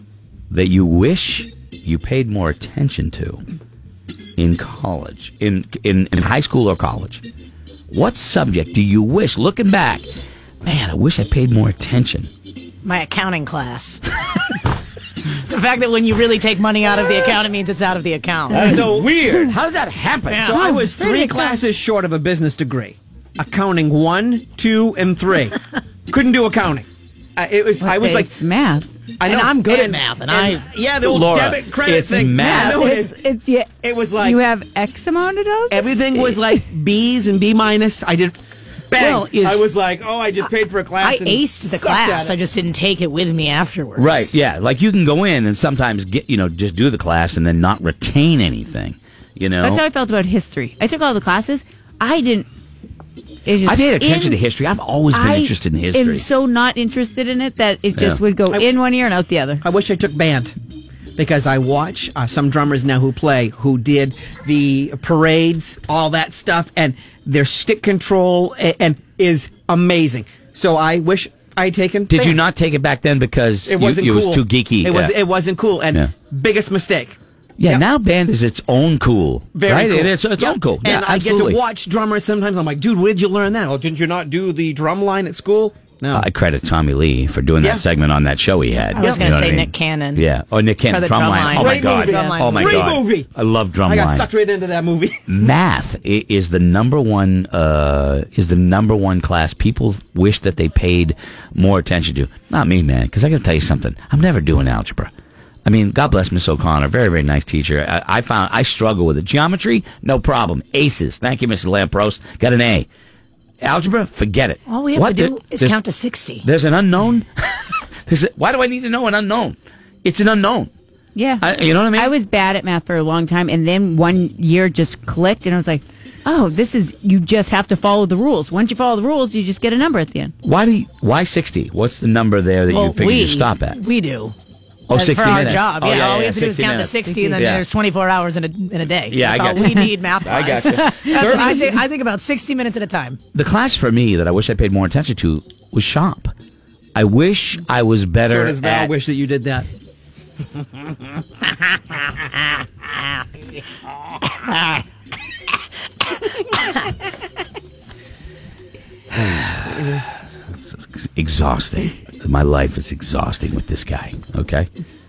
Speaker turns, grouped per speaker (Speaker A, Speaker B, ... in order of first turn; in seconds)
Speaker A: 0.5-3.4, 4.4-7.2, 7.9-10.1, 10.6-12.3, 18.5-20.6, 31.0-32.9, 38.9-39.7, 44.0-49.8, 53.6-56.2, 72.1-75.2, 77.6-81.6, 86.1-94.3, 95.3-105.1, 105.6-112.9, 113.6-115.8, 116.4-120.7, 121.4-122.1, 130.4-133.8, 134.9-137.6, 139.1-141.8, 143.3-146.3, 146.9-148.9, 159.1-164.7
Speaker B: 12.8-14.7, 15.4-18.8, 20.3-20.6, 29.2-30.7, 41.0-44.3, 88.9-90.2, 90.9-93.0, 114.7-116.5, 132.7-134.3, 134.9-143.2
Speaker C: 18.6-19.5, 20.5-28.4, 29.2-33.1, 33.8-34.4, 35.7-38.4, 38.9-42.4, 58.5-58.8, 59.6-60.5, 61.2-72.4, 73.6-77.9, 79.5-86.2, 87.6-87.8, 91.5-93.3, 93.8-95.3, 148.2-149.7
Speaker D: 20.6-21.6, 27.8-28.9, 32.1-36.5, 49.6-52.5, 53.5-54.4, 55.1-59.6, 121.1-130.3, 135.8-136.2, 137.1-137.4, 139.3-139.9, 141.0-141.5